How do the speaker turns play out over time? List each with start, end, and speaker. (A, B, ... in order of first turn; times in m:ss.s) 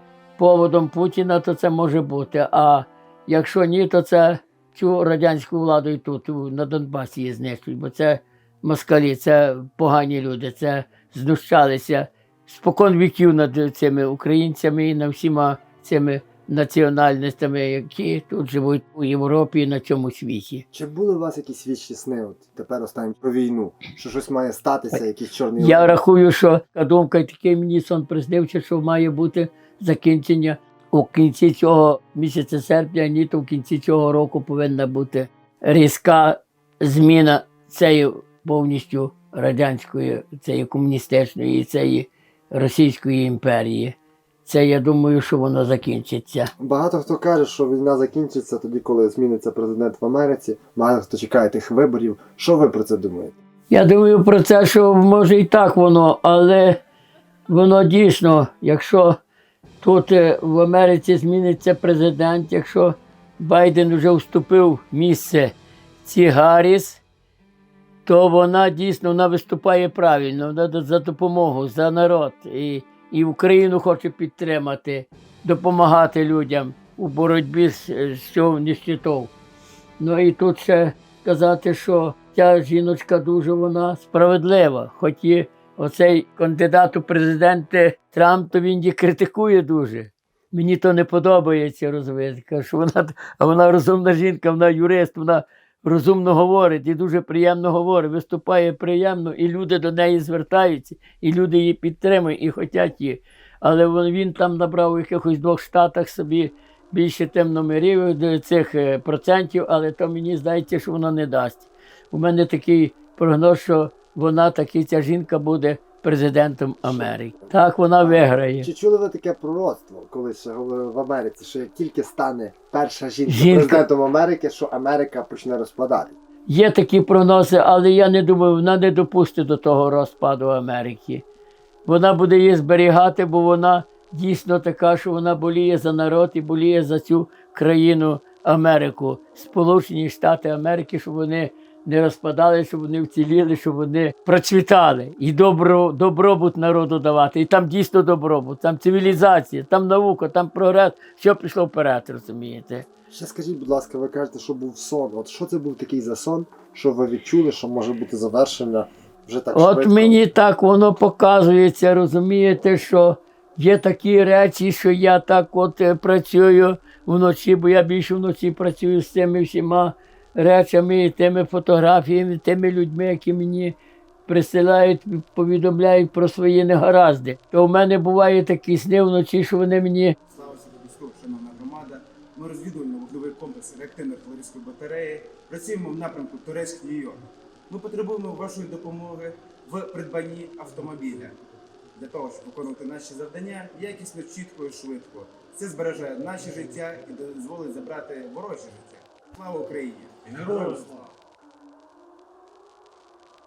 0:00.4-0:20.6 A
0:20.7-0:26.0 B
0:25.6-0:46.5 A
0:46.6-0:53.4 B
0:53.7-0:56.8 A
0:57.5-0:59.2 A
0:59.8-1:07.0 A
1:08.0-1:19.3 A
1:20.0-1:58.7 A
1:56.8-2:06.2 B
2:03.3-2:03.8 A
2:06.5-2:11.2 A
2:11.8-2:32.9 A
2:33.1-2:40.2 B
2:39.5-3:00.1 A
3:00.3-3:11.3 C
3:11.9-3:21.1 C